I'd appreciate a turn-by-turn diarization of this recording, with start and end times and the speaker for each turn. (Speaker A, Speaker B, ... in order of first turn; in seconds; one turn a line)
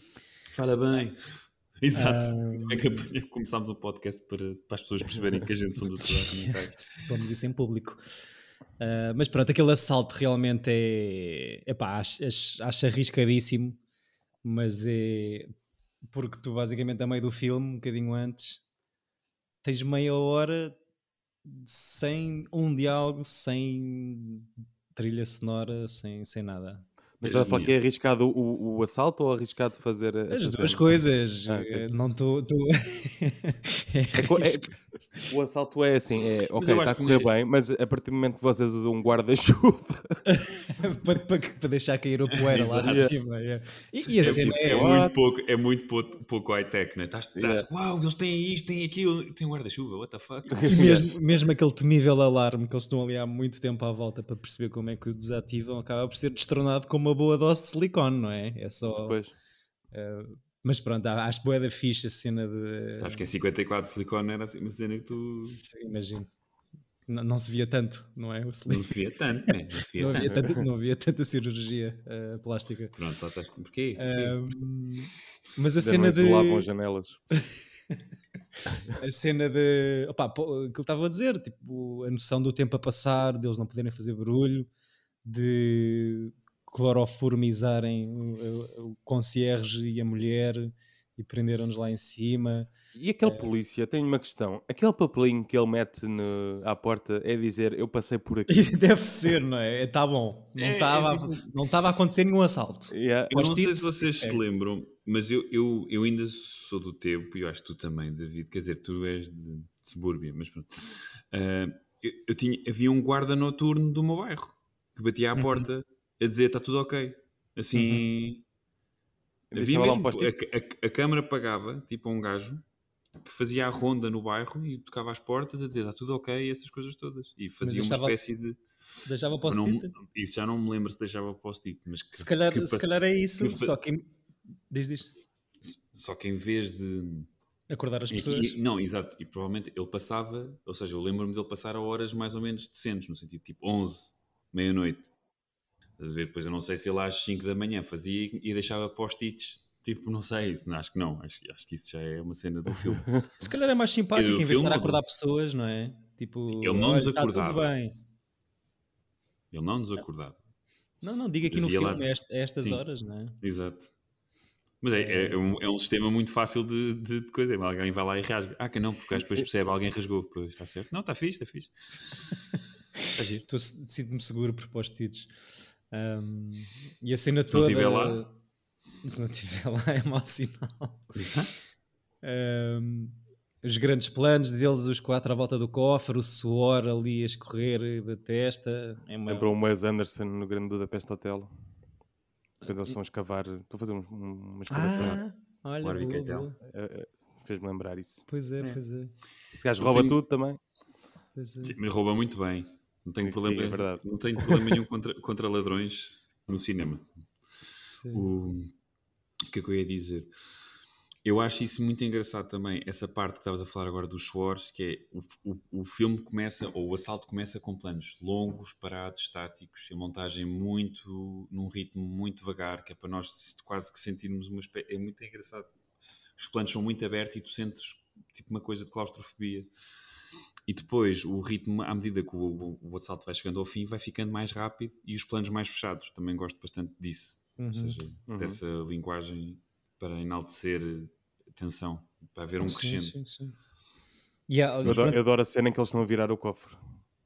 Speaker A: 0.5-6.7
Speaker B: 1.9-3.0
Speaker B: 6.1-8.0
Speaker B: 8.8-13.8
Speaker B: 14.4-15.5
Speaker B: 16.1-18.6
Speaker B: 19.6-20.8
Speaker B: 21.4-26.9
Speaker C: 27.2-31.9
Speaker A: 27.2-27.8
Speaker B: 30.3-35.3
Speaker C: 34.1-40.2
Speaker A: 36.6-37.3
Speaker B: 40.3-45.0
Speaker A: 42.4-43.1
Speaker C: 42.9-43.1
Speaker A: 44.2-51.1
Speaker C: 44.2-45.2
Speaker C: 47.4-47.7
Speaker C: 50.5-51.1
Speaker B: 50.6-59.2
Speaker C: 58.9-59.3
Speaker B: 59.9-63.3
Speaker A: 63.0-65.6
Speaker B: 65.4-66.3
Speaker B: 67.1-69.0
Speaker A: 68.7-70.5
Speaker B: 70.0-73.0
Speaker A: 73.0-74.4
Speaker B: 74.0-76.7
Speaker C: 75.8-77.2
Speaker B: 78.7-84.7
Speaker B: 85.2-93.5
Speaker C: 92.9-98.7
Speaker B: 98.5-104.4
Speaker A: 100.6-101.5
Speaker C: 102.9-103.3
Speaker A: 103.3-118.4
Speaker B: 115.4-115.7
Speaker B: 117.7-118.1
Speaker C: 119.5-120.4
Speaker A: 119.5-122.6
Speaker A: 123.2-128.6
Speaker B: 127.6-128.2
Speaker B: 129.1-129.9
Speaker A: 129.4-133.7
Speaker B: 132.1-134.1
Speaker B: 134.7-135.1
Speaker A: 135.8-137.3
Speaker B: 137.7-138.6
Speaker A: 138.1-145.1
Speaker A: 146.0-153.3
Speaker B: 153.4-157.9
Speaker A: 154.1-155.0
Speaker A: 156.5-157.7
Speaker A: 159.5-160.4
Speaker B: 161.0-163.4
Speaker A: 161.5-162.8
Speaker A: 163.4-163.9
Speaker A: 164.8-172.3
Speaker B: 164.9-165.4
Speaker A: 173.2-173.4
Speaker B: 173.5-175.3
Speaker B: 175.9-178.3
Speaker A: 177.5-178.2
Speaker B: 179.0-181.1
Speaker A: 181.1-181.5
Speaker B: 182.2-189.5
Speaker C: 189.3-191.5
Speaker C: 192.7-195.2
Speaker B: 194.7-196.6
Speaker A: 195.8-196.5
Speaker C: 196.7-198.2
Speaker B: 198.3-199.1
Speaker C: 199.5-200.6
Speaker A: 199.8-200.2
Speaker B: 201.4-201.8
Speaker A: 201.6-207.1
Speaker C: 203.2-204.7
Speaker B: 207.9-208.2
Speaker A: 208.1-208.7
Speaker A: 209.5-210.3
Speaker A: 211.2-225.7
Speaker A: 226.4-229.7
Speaker A: 230.7-243.2
Speaker B: 237.6-238.0
Speaker C: 238.3-238.6
Speaker B: 242.6-243.6
Speaker B: 244.5-245.2
Speaker C: 244.8-246.8